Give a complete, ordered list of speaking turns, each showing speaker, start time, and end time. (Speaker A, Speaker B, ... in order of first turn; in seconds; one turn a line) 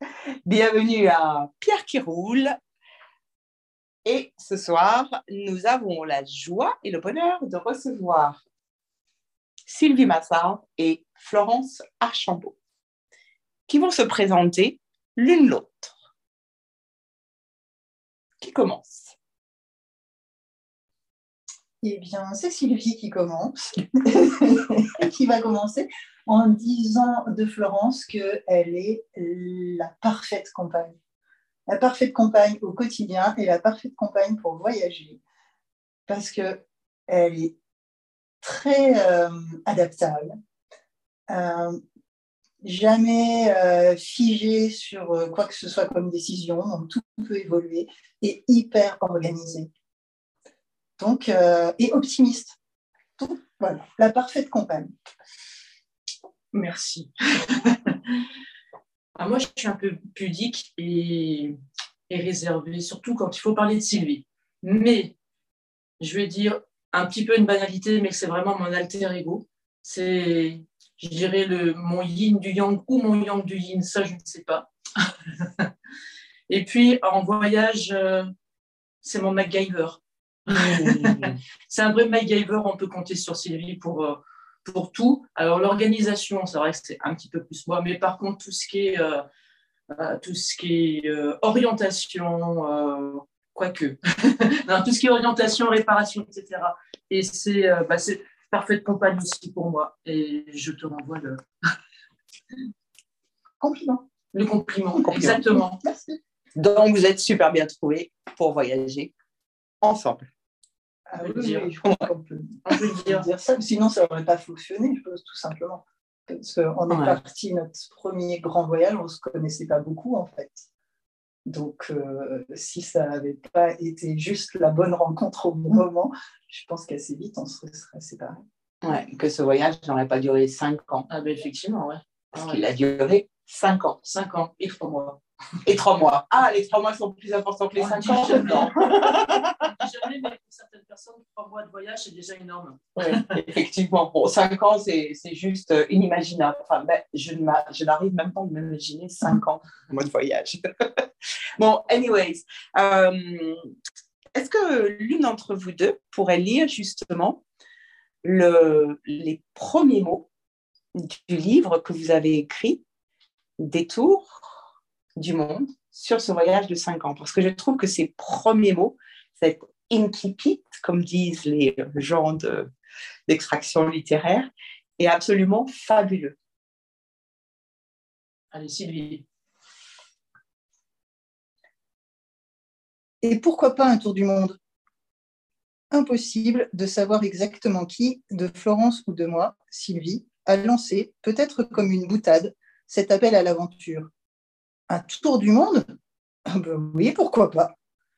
Speaker A: 0.5-2.6
Speaker A: 4.0-8.4
Speaker A: 9.7-12.6
Speaker A: 13.7-15.9
Speaker A: 18.4-19.1
Speaker B: 21.8-31.0
Speaker B: 31.7-35.2
Speaker B: 36.1-37.6
Speaker B: 38.4-40.3
Speaker B: 41.3-41.8
Speaker B: 42.6-49.7
Speaker B: 51.0-52.6
Speaker B: 53.2-54.9
Speaker C: 56.5-58.1
Speaker C: 59.2-61.6
Speaker C: 62.1-65.1
Speaker C: 66.0-75.7
Speaker C: 76.5-78.3
Speaker C: 79.0-89.2
Speaker A: 80.5-81.4
Speaker C: 89.9-101.4
Speaker B: 103.6-106.2
Speaker C: 104.3-105.8
Speaker A: 105.1-105.4
Speaker A: 106.6-109.1
Speaker A: 109.8-110.3
Speaker B: 111.1-120.7
Speaker C: 111.2-111.7
Speaker C: 112.7-113.3
Speaker A: 116.9-117.2
Speaker B: 121.5-128.4
Speaker A: 128.8-131.1
Speaker C: 131.1-132.6
Speaker A: 132.3-134.0
Speaker C: 134.0-135.2
Speaker A: 135.7-139.7
Speaker C: 137.8-143.3
Speaker B: 138.1-138.7
Speaker A: 143.0-151.0
Speaker A: 151.6-153.7
Speaker A: 154.3-157.4
Speaker A: 158.2-160.3
Speaker A: 160.9-162.8
Speaker A: 163.6-164.6
Speaker A: 165.2-172.7
Speaker A: 173.3-176.4
Speaker C: 178.5-179.2
Speaker B: 183.2-184.6
Speaker B: 185.9-194.1
Speaker B: 194.9-195.8
Speaker B: 196.5-197.7